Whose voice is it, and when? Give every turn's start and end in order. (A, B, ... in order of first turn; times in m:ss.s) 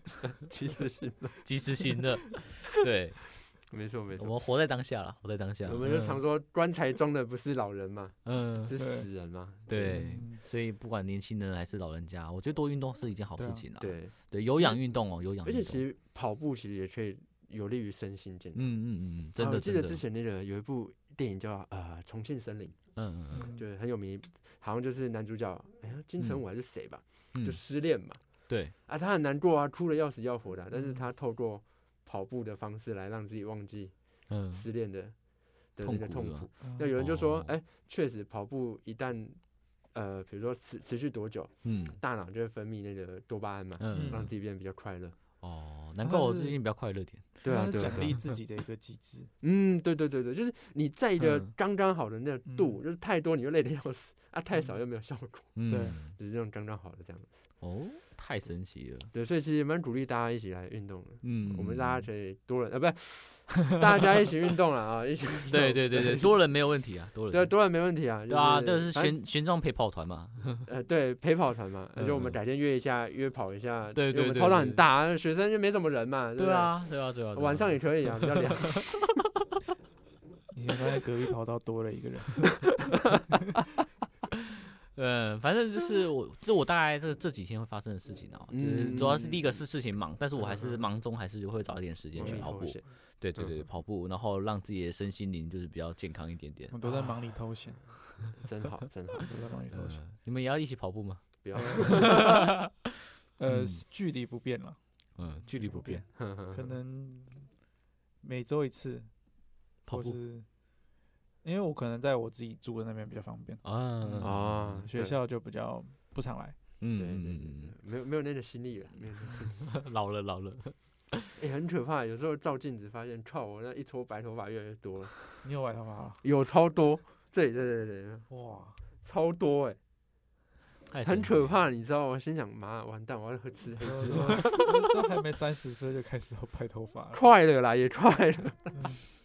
0:00.3-0:01.4 A
0:01.4-0:03.6 B
0:03.6-0:04.3 A
0:04.2-0:06.2 B
0:05.6-0:10.0 A
0:08.2-0:08.7 B
0:08.8-0:09.1 C
0:09.7-0:15.8 B
0:09.8-0:10.4 C
0:13.4-0:13.6 C
0:13.8-0:14.8 A
0:15.4-0:18.8 A
0:18.5-0:20.0 B
0:19.4-0:45.2 A
0:23.0-0:23.5 B
0:23.3-0:23.6 C
0:26.2-0:27.6 B
0:28.5-0:28.7 B
0:30.7-0:31.0 C
0:34.3-0:34.6 B
0:35.8-0:37.5 B
0:36.6-0:36.9 C
0:41.6-0:42.0 B
0:43.8-0:44.3 B
0:43.9-0:44.2 C
0:45.4-0:48.3 B
0:46.0-0:46.6 C
0:47.4-0:48.2 A
0:47.4-0:49.3 C
0:49.4-0:57.5 A
0:51.2-0:51.5 B
0:52.4-0:52.8 C
0:54.5-0:54.8 C
0:55.6-0:56.2 B
0:55.6-0:56.0 C
0:57.6-0:59.1 B
0:59.1-1:06.3 A
1:01.2-1:02.1 B
1:05.5-1:07.7 B
1:07.3-1:09.2 A
1:08.3-1:10.6 B
1:10.6-1:19.1 A
1:12.0-1:12.4 B
1:13.9-1:14.8 B
1:16.4-1:18.8 B
1:20.5-1:22.8 C
1:24.9-1:36.8 B
1:28.5-1:29.6 A
1:32.1-1:33.7 A
1:32.2-1:32.5 C
1:36.7-1:38.2 C
1:36.8-1:37.2 A
1:38.3-1:39.3 A
1:39.2-1:40.0 C
1:39.7-1:42.5 B
1:41.4-1:42.4 A
1:41.5-1:42.4 C
1:43.4-1:44.8 C
1:43.5-1:43.8 B
1:45.2-1:46.0 B
1:45.3-1:47.5 C
1:46.1-1:46.7 A
1:48.2-1:49.1 C
1:49.8-1:50.2 B
1:49.9-1:50.5 C
1:51.4-1:56.6 C
1:53.6-1:54.8 B
1:54.2-1:55.2 A
1:56.8-1:57.7 B
1:56.9-1:59.7 A
1:59.7-2:01.3 B
2:01.4-2:05.4 A
2:05.4-2:06.2 C
2:06.2-2:08.3 A
2:08.3-2:08.8 C
2:09.0-2:09.8 A
2:10.9-2:11.6 B
2:11.0-2:14.5 A
2:13.8-2:17.2 C
2:14.1-2:14.4 B
2:17.1-2:18.8 A